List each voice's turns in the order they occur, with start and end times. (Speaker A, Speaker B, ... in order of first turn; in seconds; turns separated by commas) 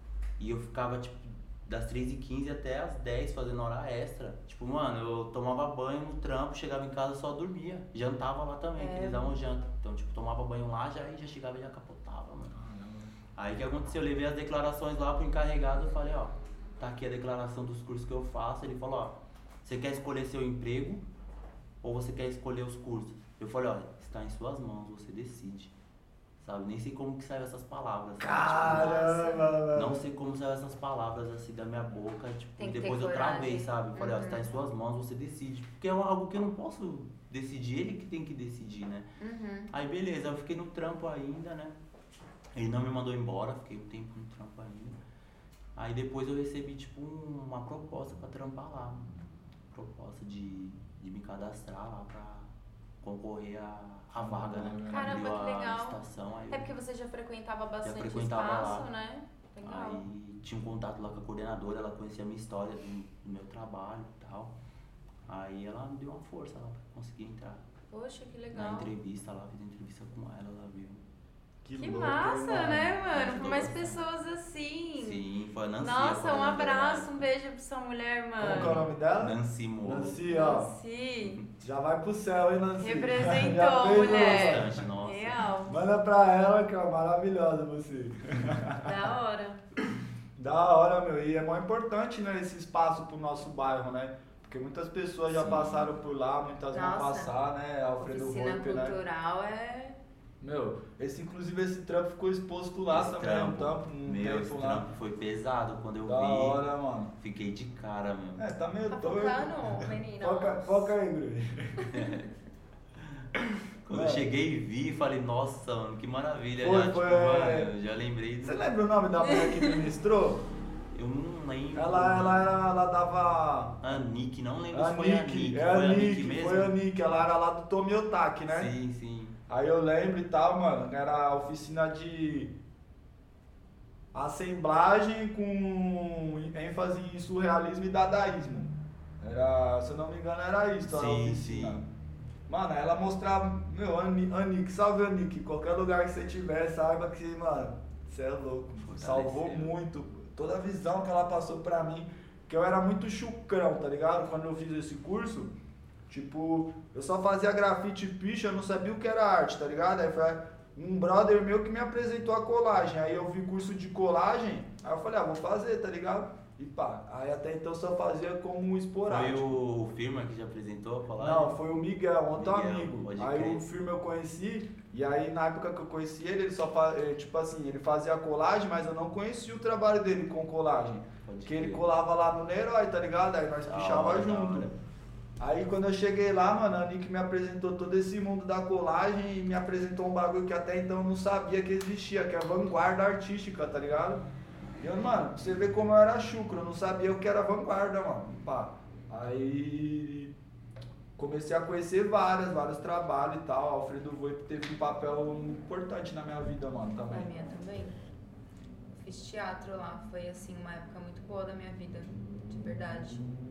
Speaker A: 0.4-12.6, Speaker B: 8.8-9.4, Speaker C: 12.5-13.1, Speaker A: 13.4-21.0, Speaker A: 21.8-25.7, Speaker A: 26.4-29.0, Speaker C: 28.2-30.0, Speaker B: 28.6-29.6, Speaker A: 29.7-39.1, Speaker B: 32.6-34.5, Speaker B: 39.2-39.7, Speaker A: 39.7-41.8, Speaker A: 42.5-45.0, Speaker A: 45.8-49.1, Speaker A: 49.7-56.7, Speaker C: 54.2-55.2, Speaker B: 54.9-56.0, Speaker B: 56.5-60.0, Speaker A: 57.8-58.9, Speaker A: 59.6-64.5, Speaker A: 65.3-67.7, Speaker B: 67.9-68.9, Speaker A: 68.5-71.0, Speaker C: 71.6-73.0, Speaker B: 71.8-75.2, Speaker A: 73.1-74.0, Speaker A: 75.0-77.2, Speaker B: 75.8-78.8, Speaker C: 78.4-80.7, Speaker A: 78.4-80.2, Speaker B: 80.3-81.4, Speaker A: 81.2-81.5, Speaker C: 81.6-84.8, Speaker B: 82.8-85.8, Speaker A: 84.0-85.5, Speaker C: 85.7-89.0, Speaker B: 88.8-89.6, Speaker C: 90.4-99.0, Speaker A: 95.3-95.9, Speaker B: 96.7-97.3, Speaker B: 98.0-100.0, Speaker C: 100.4-104.9, Speaker A: 102.9-106.6, Speaker C: 106.0-107.1, Speaker A: 107.2-108.5, Speaker C: 108.4-111.9, Speaker B: 108.9-110.9, Speaker A: 111.9-112.3, Speaker A: 113.0-113.3, Speaker A: 113.8-118.7, Speaker C: 113.9-114.3, Speaker C: 116.6-117.7, Speaker C: 118.4-120.5, Speaker B: 119.2-119.8, Speaker A: 120.9-122.5, Speaker C: 121.8-123.8, Speaker A: 123.8-126.7, Speaker C: 124.7-128.7, Speaker A: 128.5-129.4, Speaker C: 129.5-132.5, Speaker C: 134.1-141.9, Speaker A: 140.8-141.8, Speaker C: 142.5-155.5, Speaker A: 148.8-149.7, Speaker C: 156.1-169.5, Speaker A: 169.1-171.6, Speaker C: 171.2-184.7, Speaker A: 172.3-173.7, Speaker A: 181.3-181.8, Speaker A: 183.7-184.8, Speaker C: 185.4-194.2, Speaker C: 194.8-200.3, Speaker C: 201.2-207.3, Speaker B: 207.1-208.0, Speaker B: 209.0-213.3